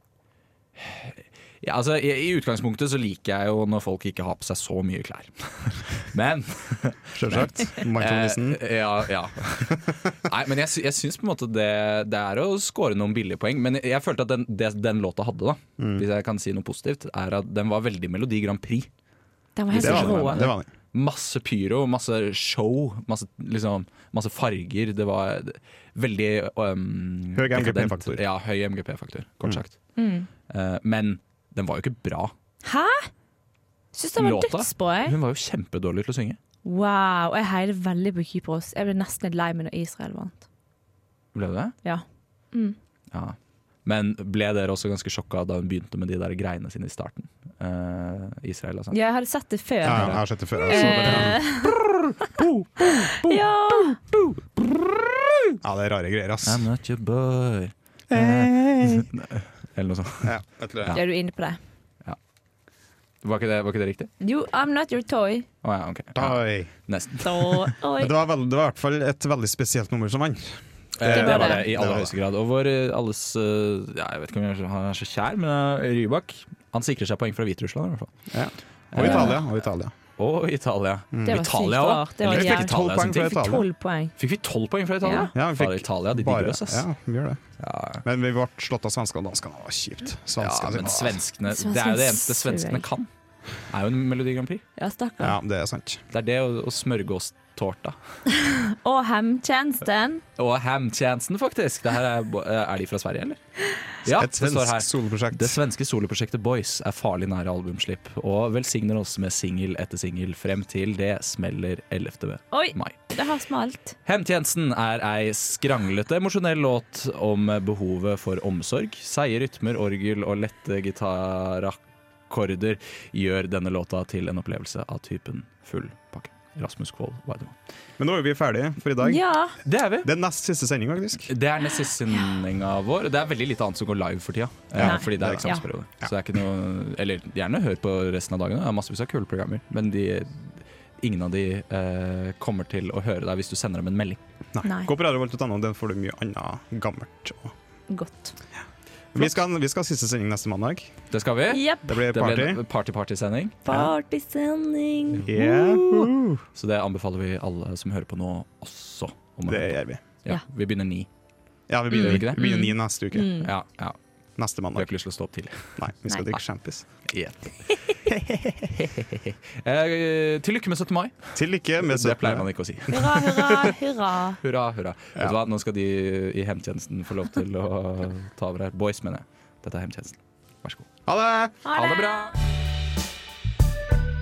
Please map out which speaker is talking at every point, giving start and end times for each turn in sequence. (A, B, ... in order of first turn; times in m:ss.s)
0:00.8-0:18.9 A
0:07.2-0:08.6 B
0:15.8-0:16.0 B
0:19.6-0:20.5 C
0:19.7-0:29.8 A
0:19.7-0:20.7 B
0:27.3-0:28.2 B
0:30.0-0:30.3 C
0:30.5-0:32.3 A
0:32.6-0:33.1 C
0:33.9-0:35.1 C
0:34.2-0:36.4 A
0:36.6-0:40.4 C
0:41.3-0:41.8 A
0:41.8-0:42.8 C
0:43.1-0:49.0 A
0:48.9-0:51.7 C
0:49.8-0:52.5 A
0:49.8-0:51.4 B
0:52.4-0:52.9 B
0:53.2-0:54.0 C
0:54.1-0:54.6 A
0:55.6-0:56.6 B
0:56.4-1:01.0 A
0:58.1-0:59.1 B
1:00.2-1:01.0 B
1:00.9-1:01.6 C
1:03.2-1:04.1 A
1:04.2-1:05.5 C
1:05.6-1:07.7 A
1:06.1-1:06.7 B
1:07.2-1:08.1 C
1:08.0-1:12.1 B
1:11.0-1:18.1 A
1:11.1-1:11.6 C
1:18.3-1:19.9 B
1:18.9-1:19.4 A
1:19.0-1:19.4 C
1:20.2-1:23.4 A
1:21.1-1:21.4 B
1:21.2-1:24.1 C
1:22.2-1:23.6 B
1:24.2-1:26.8 A
1:25.0-1:25.3 C
1:25.3-1:27.4 B
1:27.6-1:28.0 A
1:28.0-1:31.2 B
1:30.4-1:33.1 A
1:31.5-1:32.9 C
1:33.6-1:34.6 A
1:34.8-1:35.4 C
1:35.2-1:36.0 B
1:36.1-1:38.2 A
1:38.6-1:40.2 C
1:40.4-1:43.4 A
1:44.0-1:53.0 A
1:44.0-1:45.6 B
1:52.5-1:54.0 C
1:54.0-2:07.6 A
2:08.0-2:09.2 B
2:09.0-2:09.6 C
2:09.6-2:10.1 A
2:10.0-2:11.3 B
2:11.3-2:24.2 A
2:14.7-2:16.1 B
2:14.8-2:15.6 C
2:24.5-2:27.5 B
2:24.6-2:24.9 C
2:27.9-2:28.3 C
2:29.1-2:30.9 B
2:31.1-2:33.6 A
2:31.5-2:31.8 C
2:31.9-2:32.6 B
2:33.6-2:36.1 C
2:35.2-2:36.4 B
2:36.5-2:41.1 A
2:39.5-2:40.0 B
2:41.7-2:43.4 B
2:41.9-2:42.7 A
2:41.9-2:43.5 C
2:43.4-2:44.0 A
2:44.4-2:44.9 B
2:44.7-2:45.8 A
2:45.8-2:46.8 B
2:47.1-2:53.7 A
2:48.1-2:48.4 B
2:51.3-2:52.5 B
2:52.9-2:54.4 C
2:54.4-3:00.9 A
3:01.0-3:01.6 B
3:01.6-3:02.3 C
3:01.7-3:02.4 A